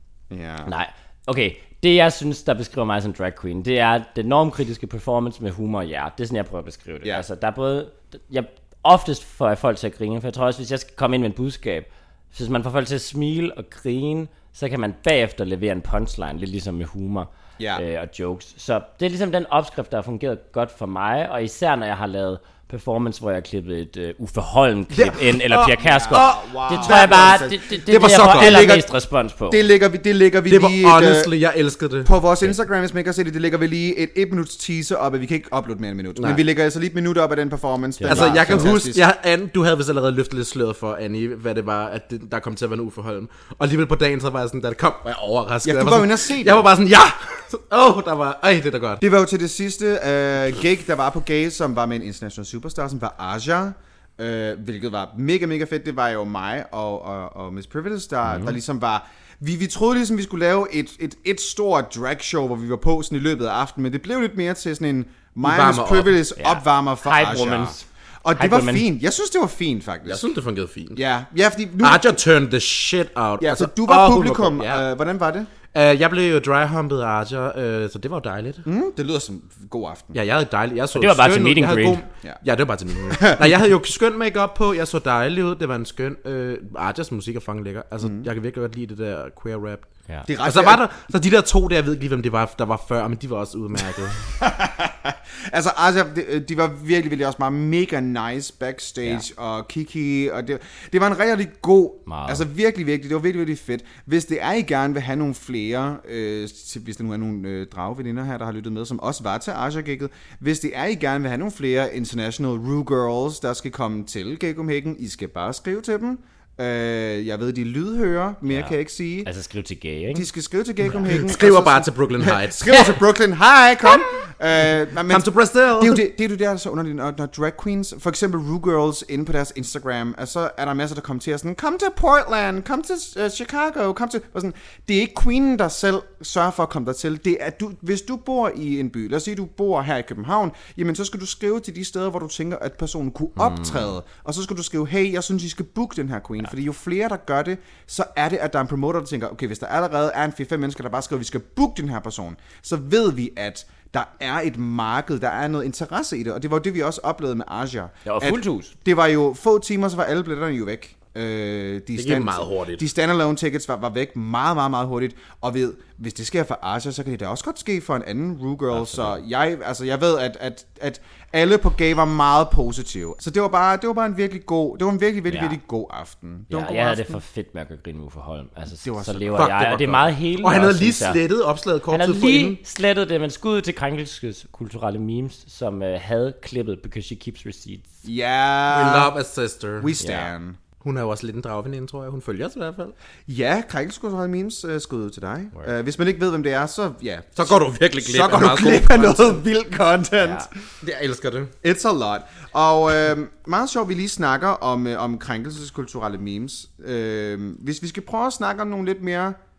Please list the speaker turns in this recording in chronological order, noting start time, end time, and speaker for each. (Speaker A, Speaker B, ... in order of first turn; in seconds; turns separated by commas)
Speaker A: 0.3-0.7, Speaker B: 0.7-29.6, Speaker C: 24.9-28.8, Speaker A: 25.5-28.9, Speaker A: 29.5-31.3, Speaker C: 30.5-32.1, Speaker A: 32.0-39.0, Speaker C: 36.2-36.4, Speaker B: 38.0-38.7, Speaker C: 38.0-49.0, Speaker A: 45.6-46.7, Speaker A: 49.0-70.2, Speaker B: 58.3-58.5, Speaker C: 65.4-66.2, Speaker B: 66.4-67.8, Speaker B: 68.3-68.9, Speaker C: 70.0-71.0, Speaker A: 70.9-72.2, Speaker C: 71.8-74.8, Speaker A: 73.4-75.5, Speaker C: 75.7-78.6, Speaker A: 78.6-80.2, Speaker C: 80.1-89.9, Speaker B: 80.9-82.0, Speaker A: 83.1-83.4, Speaker A: 88.0-88.3, Speaker A: 90.2-90.8, Speaker C: 90.4-94.2, Speaker A: 94.4-119.3, Speaker B: 102.1-102.4, Speaker B: 118.5-120.3, Speaker A: 120.1-177.2, Speaker C: 121.0-122.9, Speaker C: 125.1-126.0, Speaker B: 158.0-158.7, Speaker C: 161.9-162.8, Speaker B: 168.7-169.2, Speaker B: 175.3-175.6, Speaker B: 176.5-181.2, Speaker A: 178.8-179.5, Speaker C: 179.3-182.6, Speaker B: 181.9-187.9, Speaker A: 188.0-189.1, Speaker C: 188.7-189.9, Speaker A: 189.8-190.6, Speaker B: 190.0-190.3, Speaker C: 190.8-192.9, Speaker A: 193.3-200.5, Speaker C: 197.3-199.4, Speaker B: 200.2-200.5, Speaker C: 200.8-201.5, Speaker A: 201.6-209.4